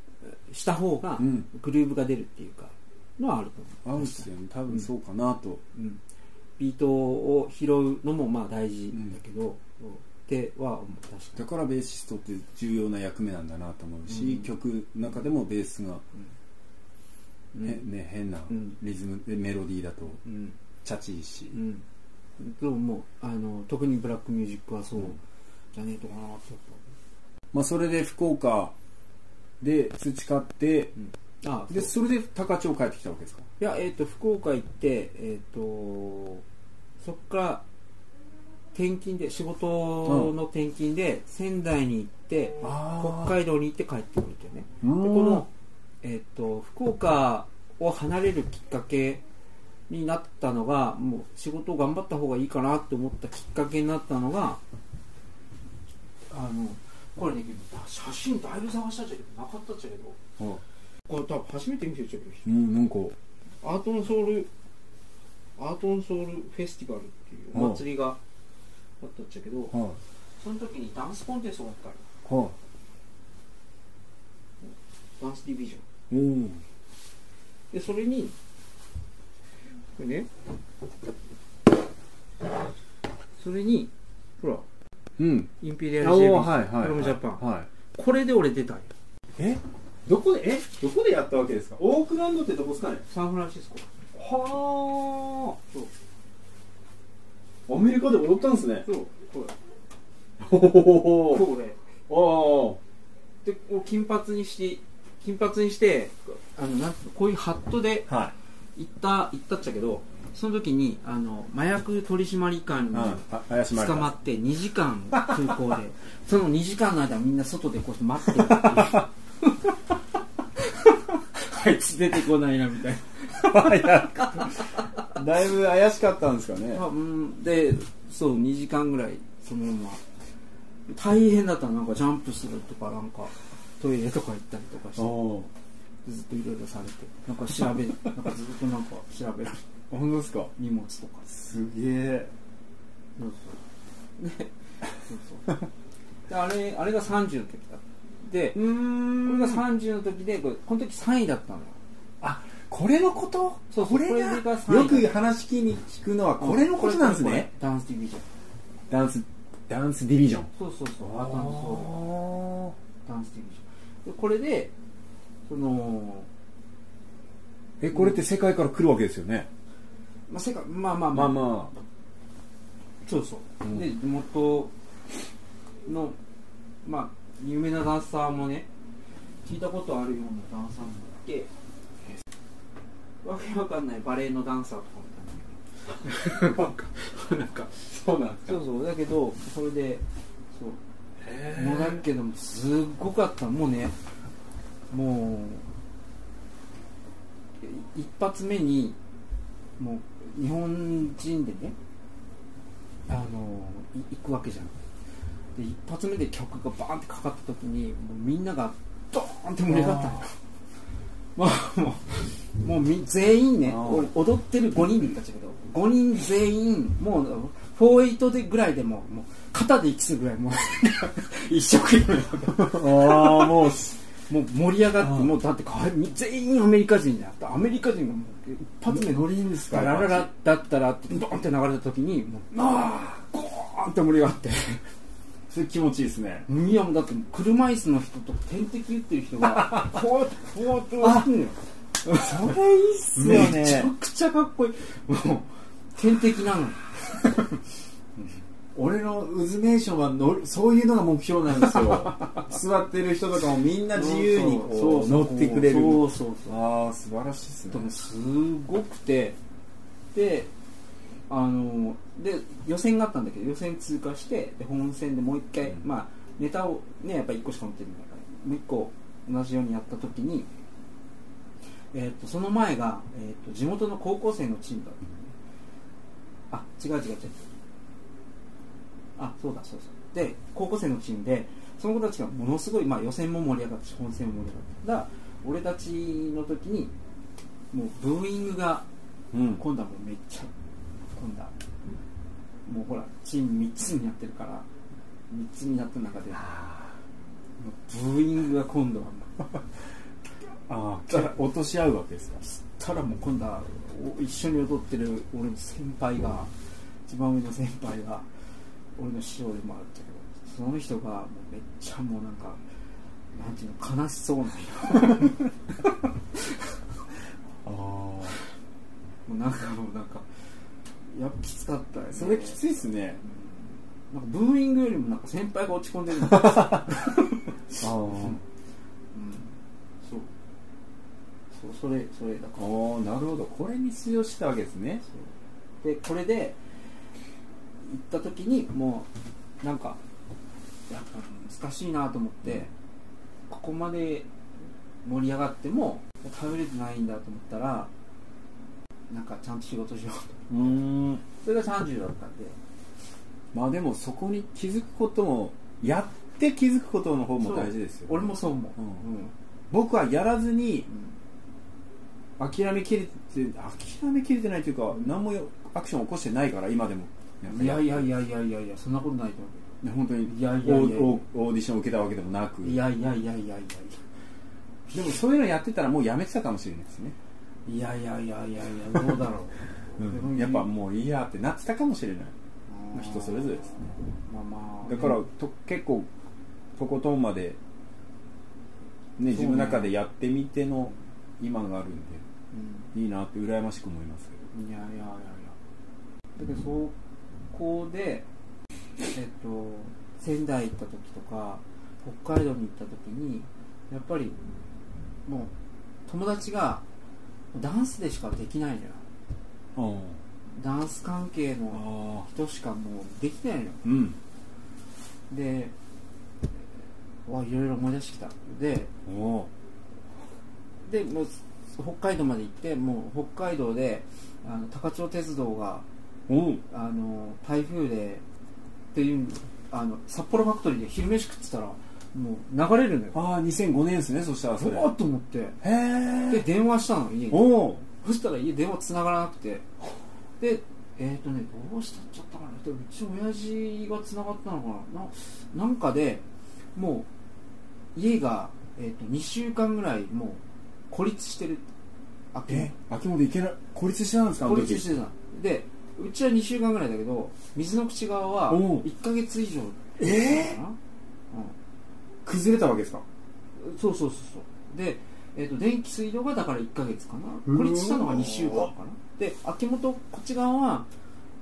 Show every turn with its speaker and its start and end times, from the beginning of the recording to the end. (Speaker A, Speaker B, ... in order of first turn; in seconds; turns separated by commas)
Speaker A: 0.2-4.9, Speaker B: 1.2-1.5, Speaker B: 3.8-5.6, Speaker A: 5.7-6.0, Speaker A: 6.6-11.4, Speaker B: 11.4-16.0, Speaker A: 14.1-14.5, Speaker B: 17.6-20.2, Speaker A: 18.5-18.8, Speaker A: 20.2-20.5, Speaker B: 20.8-21.6, Speaker A: 21.5-21.8, Speaker A: 22.4-25.2, Speaker A: 25.7-26.8, Speaker B: 27.5-28.7, Speaker B: 29.6-30.9, Speaker A: 31.0-31.9, Speaker B: 31.7-33.5, Speaker A: 33.6-36.4, Speaker A: 37.0-37.6, Speaker A: 38.7-45.5, Speaker B: 40.0-40.3, Speaker B: 42.6-43.3, Speaker B: 44.8-45.5, Speaker A: 46.0-49.2, Speaker A: 49.9-54.6, Speaker A: 56.3-60.2, Speaker A: 61.1-62.5, Speaker B: 62.5-63.1, Speaker A: 63.6-64.5, Speaker A: 65.6-68.2, Speaker B: 67.5-67.8, Speaker A: 69.0-69.7, Speaker B: 69.7-70.0, Speaker A: 70.4-72.0, Speaker B: 72.2-72.5, Speaker A: 74.6-75.8, Speaker B: 76.1-76.6, Speaker A: 77.7-78.3, Speaker A: 80.0-80.3, Speaker A: 83.4-84.7, Speaker B: 85.2-87.7, Speaker A: 85.6-88.9, Speaker B: 89.4-93.0, Speaker A: 93.1-93.9, Speaker B: 94.1-95.6, Speaker B: 97.7-98.9, Speaker A: 98.8-99.5, Speaker B: 100.4-101.5, Speaker A: 101.2-101.8, Speaker B: 102.1-102.8, Speaker A: 103.4-108.1, Speaker B: 108.1-108.3, Speaker A: 108.8-119.7, Speaker B: 112.9-114.1, Speaker B: 118.4-119.0, Speaker A: 120.6-124.6, Speaker B: 123.4-126.8, Speaker A: 126.7-130.0, Speaker A: 130.9-135.2, Speaker B: 135.0-135.5, Speaker A: 136.0-139.7, Speaker B: 139.9-140.5, Speaker A: 140.6-141.3, Speaker B: 141.3-142.3, Speaker A: 143.2-143.6, Speaker A: 144.2-145.5, Speaker A: 146.3-151.8, Speaker B: 148.5-149.6, Speaker B: 152.2-157.5, Speaker A: 153.7-155.1, Speaker A: 156.4-158.3, Speaker B: 158.9-160.5, Speaker A: 160.5-162.0, Speaker B: 161.0-162.7, Speaker A: 163.0-164.7, Speaker A: 165.5-166.3, Speaker B: 167.8-169.5, Speaker A: 170.3-171.6, Speaker B: 171.1-171.7, Speaker A: 173.0-174.7, Speaker A: 175.8-176.2, Speaker A: 176.8-178.7, Speaker A: 179.4-181.5, Speaker A: 183.2-187.7, Speaker B: 186.3-186.7, Speaker B: 187.8-188.6, Speaker A: 188.4-190.8, Speaker B: 191.2-192.0, Speaker A: 191.5-193.9, Speaker A: 194.9-195.7, Speaker A: 197.6-199.0, Speaker A: 199.8-201.8, Speaker A: 203.1-204.7, Speaker A: 205.5-210.3, Speaker B: 209.7-210.2, Speaker A: 211.3-223.8, Speaker B: 213.6-214.1, Speaker B: 222.5-224.0, Speaker A: 224.3-234.9, Speaker B: 225.0-225.3, Speaker B: 228.8-230.3, Speaker B: 235.5-236.5, Speaker A: 236.5-242.6, Speaker B: 239.6-239.9, Speaker B: 241.0-241.3, Speaker B: 242.1-243.9, Speaker A: 243.1-247.2, Speaker B: 248.7-257.9, Speaker A: 251.7-252.4, Speaker A: 253.9-256.6, Speaker A: 257.7-259.4, Speaker A: 260.1-260.5, Speaker A: 261.3-270.5, Speaker A: 271.9-275.1, Speaker A: 276.5-277.5, Speaker A: 279.2-286.9, Speaker A: 287.7-288.9, Speaker B: 289.3-289.6, Speaker A: 289.6-290.5, Speaker A: 291.1-291.5, Speaker A: 292.6-294.7, Speaker A: 295.3-296.6, Speaker B: 296.4-296.9, Speaker A: 297.6-299.6, Speaker B: 300.7-302.4, Speaker A: 301.1-301.4, Speaker A: 302.4-306.5, Speaker A: 307.0-308.3, Speaker A: 308.9-312.6, Speaker A: 313.3-315.4, Speaker B: 317.6-318.4, Speaker A: 319.2-320.2, Speaker A: 321.1-322.6, Speaker B: 322.1-323.2, Speaker A: 323.2-328.4, Speaker B: 326.3-326.9, Speaker B: 327.8-328.4, Speaker A: 329.1-330.3, Speaker A: 331.5-332.6, Speaker B: 332.6-335.0, Speaker A: 335.0-336.6, Speaker A: 337.8-339.1, Speaker A: 339.6-340.0, Speaker A: 340.9-342.7, Speaker A: 343.5-344.3, Speaker A: 345.0-347.9, Speaker A: 349.1-350.8, Speaker B: 350.5-351.2, Speaker A: 351.3-352.6, Speaker B: 353.5-359.0, Speaker A: 357.4-359.3, Speaker B: 359.7-360.9, Speaker A: 360.9-361.1, Speaker B: 362.4-368.1, Speaker A: 367.4-371.2, Speaker B: 369.8-372.8, Speaker A: 372.6-374.0, Speaker B: 374.9-377.1, Speaker A: 377.6-380.7, Speaker B: 380.0-382.3, Speaker A: 382.7-383.6, Speaker B: 382.9-383.9, Speaker A: 384.3-385.2, Speaker B: 384.8-386.1, Speaker B: 386.8-387.6, Speaker B: 389.2-392.2, Speaker A: 389.3-389.9, Speaker A: 392.5-392.9, Speaker B: 392.9-394.4, Speaker A: 394.5-395.6, Speaker A: 396.4-397.0, Speaker A: 397.5-398.3, Speaker A: 399.1-404.4, Speaker A: 405.2-405.5, Speaker A: 406.1-406.8, Speaker A: 407.5-409.1, Speaker B: 409.7-410.2, Speaker A: 410.5-413.9, Speaker B: 411.7-412.3, Speaker B: 413.8-414.2, Speaker A: 415.3-415.7, Speaker A: 417.2-418.9, Speaker B: 419.1-419.5, Speaker A: 420.9-425.9, Speaker B: 426.3-426.6, Speaker A: 426.7-428.2, Speaker A: 428.9-433.2, Speaker B: 433.1-434.9, Speaker A: 434.6-435.6, Speaker B: 435.6-436.4, Speaker A: 436.3-439.6, Speaker B: 437.3-437.8, Speaker A: 440.4-447.1, Speaker A: 447.9-451.7, Speaker A: 452.3-452.7, Speaker B: 452.5-454.9, Speaker A: 454.4-460.8, Speaker B: 458.5-458.9, Speaker B: 460.0-460.6, Speaker B: 462.2-463.0, Speaker A: 463.6-470.9, Speaker B: 467.5-468.7